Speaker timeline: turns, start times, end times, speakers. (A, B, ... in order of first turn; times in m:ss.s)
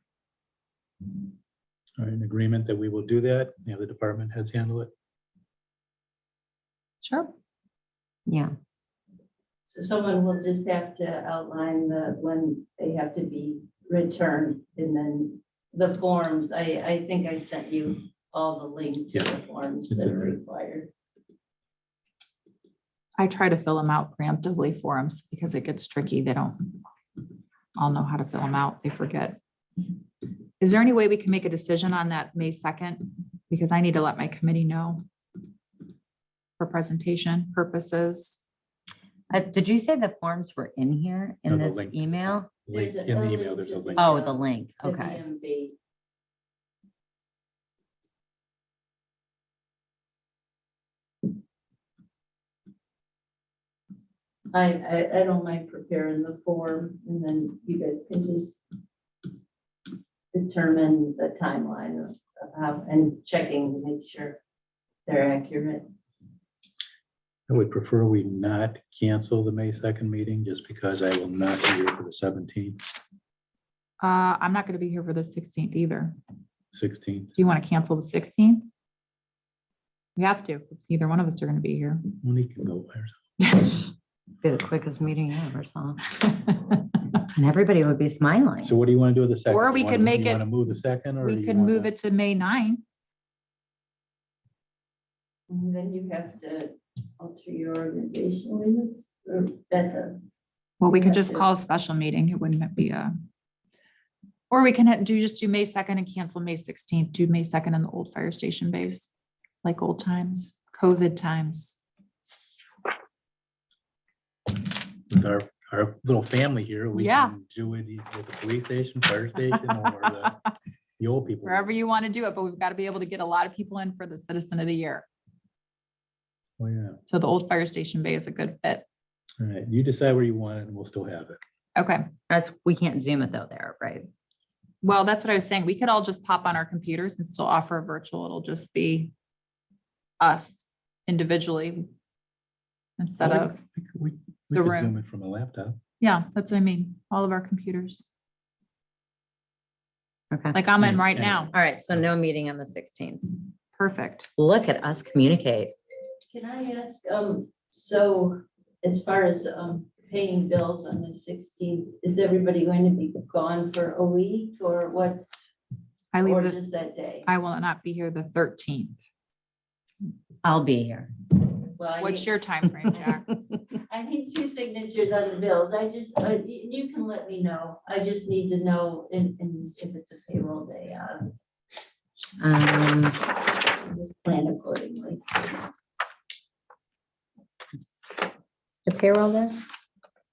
0:02.0-0:04.9 A
0:07.0-0:07.3 B
0:08.3-0:08.5 C
0:09.7-0:20.9 D
0:19.9-0:20.4 A
0:23.2-0:26.8 B
0:27.8-0:29.4 B
0:30.6-0:35.0 B
0:36.6-0:38.4 B
0:39.3-0:42.5 C
0:41.5-0:44.2 A
0:42.7-0:45.8 D
0:44.0-0:45.2 C
0:54.5-0:58.6 D
1:00.3-1:04.4 D
1:05.0-1:05.9 D
1:07.5-1:12.8 A
1:14.0-1:16.2 B
1:16.7-1:17.3 A
1:17.4-1:18.7 B
1:20.2-1:22.0 B
1:22.2-1:23.2 A
1:23.5-1:23.8 B
1:24.4-1:26.1 C
1:27.3-1:28.7 C
1:28.6-1:31.9 A
1:29.5-1:30.5 B
1:31.2-1:32.8 B
1:35.5-1:40.2 D
1:40.8-1:43.1 B
1:40.9-1:41.5 D
1:44.5-1:49.1 B
1:49.6-1:51.8 B
1:55.1-2:00.4 A
1:56.9-1:57.3 B
1:59.6-2:00.3 B
2:01.0-2:01.7 A
2:01.4-2:05.1 B
2:06.6-2:07.0 A
2:07.1-2:08.8 B
2:09.4-2:11.4 A
2:11.8-2:12.1 B
2:12.3-2:14.1 C
2:14.8-2:19.1 B
2:20.2-2:21.9 B
2:23.0-2:23.6 B
2:23.2-2:25.8 A
2:24.5-2:24.9 B
2:26.0-2:28.0 B
2:30.3-2:30.6 C
2:30.5-2:31.5 B
2:30.8-2:31.5 A
2:31.5-2:33.4 C
2:33.8-2:34.3 B
2:34.4-2:35.7 C
2:36.3-2:45.3 D
2:46.1-2:46.6 B
2:46.2-2:47.3 D
2:47.2-2:49.0 B
2:50.4-2:51.3 C
2:51.8-2:52.3 D
2:52.0-2:53.3 B
2:53.7-3:01.3 D
3:02.4-3:03.2 C
3:03.6-3:05.6 D
3:08.0-3:08.3 C
3:08.8-3:09.6 C